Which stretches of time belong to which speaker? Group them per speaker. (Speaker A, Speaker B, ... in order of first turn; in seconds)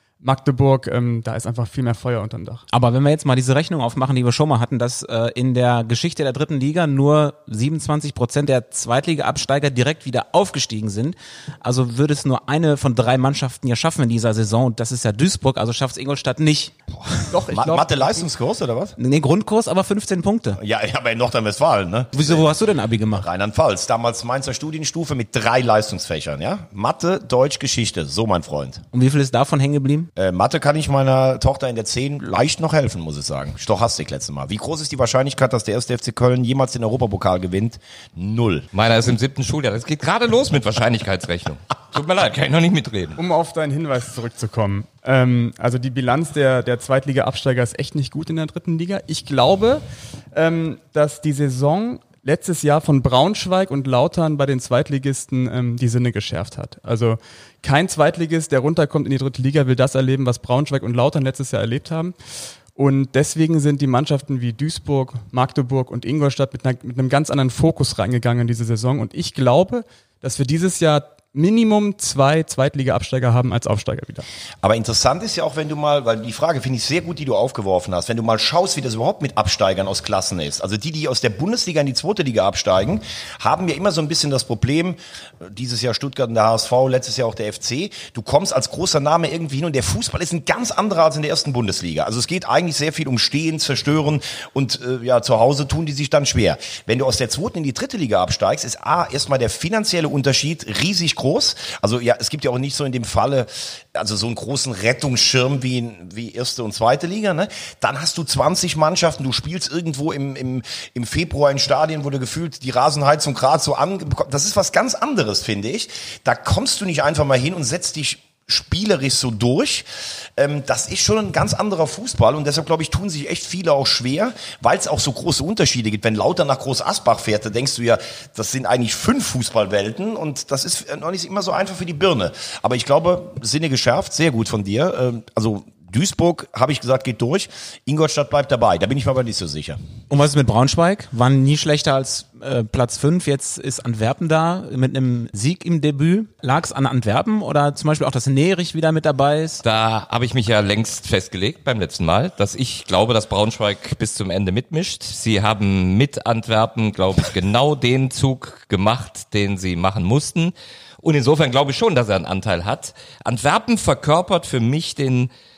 Speaker A: 0.2-2.6, 17.3-18.3, 43.2-62.1, 62.7-74.3
Speaker B: 2.7-16.7, 19.0-20.6, 22.1-23.2, 28.9-30.1, 140.1-149.6
Speaker C: 16.9-18.9, 20.6-22.5, 23.2-28.8, 30.1-38.7, 74.6-119.8, 120.4-139.8
Speaker D: 38.7-43.2, 149.6-165.3